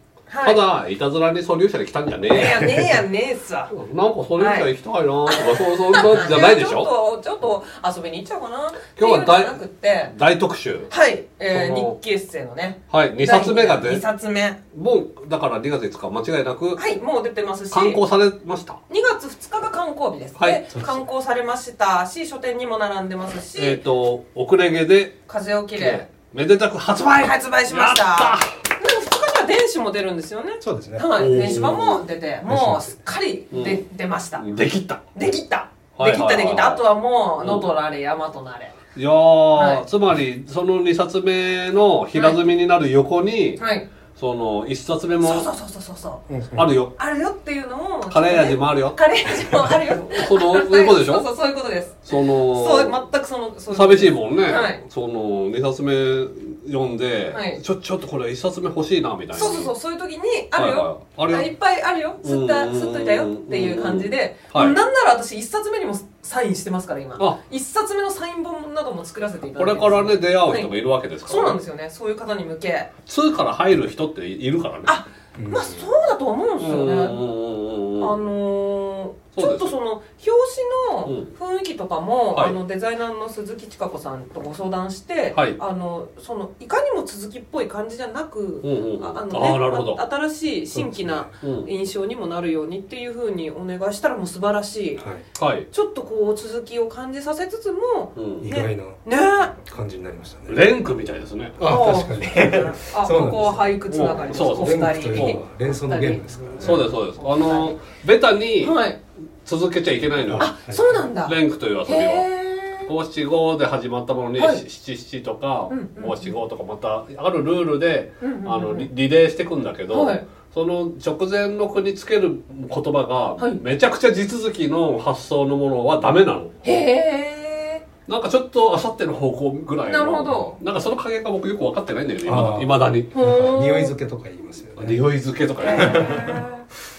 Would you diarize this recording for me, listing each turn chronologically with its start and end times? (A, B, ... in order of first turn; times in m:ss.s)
0:00.3-0:00.6 A
0:00.4-0:02.9 B
0:02.3-0:03.7 A
0:03.7-0:06.9 B
0:04.4-0:04.7 A
0:05.3-0:10.1 A
0:09.0-0:10.9 B
0:10.9-0:14.6 A
0:11.5-0:12.0 B
0:12.9-0:14.0 B
0:14.7-0:16.8 B
0:16.8-0:18.0 A
0:17.7-0:18.8 B
0:18.9-0:23.8 A
0:20.4-0:20.6 B
0:20.7-0:21.0 C
0:23.5-0:25.2 B
0:25.3-0:26.0 A
0:25.8-0:28.5 B
0:27.2-0:34.4 A
0:30.6-0:31.5 C
0:31.2-0:32.0 B
0:32.4-0:33.0 C
0:33.5-0:33.8 B
0:34.4-0:35.0 B
0:35.1-0:38.8 A
0:36.0-0:36.8 B
0:37.4-0:37.7 B
0:38.9-0:43.6 B
0:39.5-0:39.8 A
0:42.1-0:42.4 A
0:43.6-0:43.9 A
0:44.1-0:45.5 B
0:45.2-0:46.2 A
0:46.3-0:46.7 C
0:46.5-0:46.9 B
0:47.0-0:54.8 A
0:48.1-0:49.0 B
0:50.1-0:51.3 B
0:52.1-0:53.0 B
0:53.7-0:59.7 B
0:57.3-0:57.6 A
0:59.3-1:10.7 A
1:00.5-1:01.5 B
1:02.2-1:04.8 B
1:09.6-1:11.6 B
1:11.2-1:12.9 A
1:13.1-1:14.9 B
1:14.8-1:17.2 A
1:15.3-1:15.8 C
1:16.6-1:18.2 B
1:18.0-1:35.0 A
1:19.3-1:19.7 B
1:21.0-1:21.3 B
1:25.3-1:25.6 B
1:28.6-1:30.0 B
1:30.7-1:31.3 C
1:31.4-1:31.7 B
1:35.0-1:35.2 C
1:35.4-1:35.7 B
1:35.7-1:39.5 A
1:38.2-1:38.5 B
1:38.4-1:40.7 C
1:40.5-1:41.6 B
1:41.6-1:43.8 C
1:41.6-1:47.7 A
1:43.9-1:45.4 B
1:44.4-1:46.8 C
1:46.6-1:48.8 B
1:48.6-1:49.0 A
1:49.4-1:50.5 B
1:50.2-1:51.1 C
1:50.4-1:52.9 A
1:51.2-2:06.6 B
1:54.4-1:54.6 A
1:55.7-1:56.3 A
1:58.2-1:58.9 A
1:59.9-2:00.2 A
2:06.6-2:07.8 A
2:08.1-2:13.1 B
2:09.8-2:10.6 A
2:12.2-2:15.0 C
2:13.1-2:13.9 A
2:14.8-2:16.3 B
2:15.6-2:16.6 A
2:15.7-2:16.4 C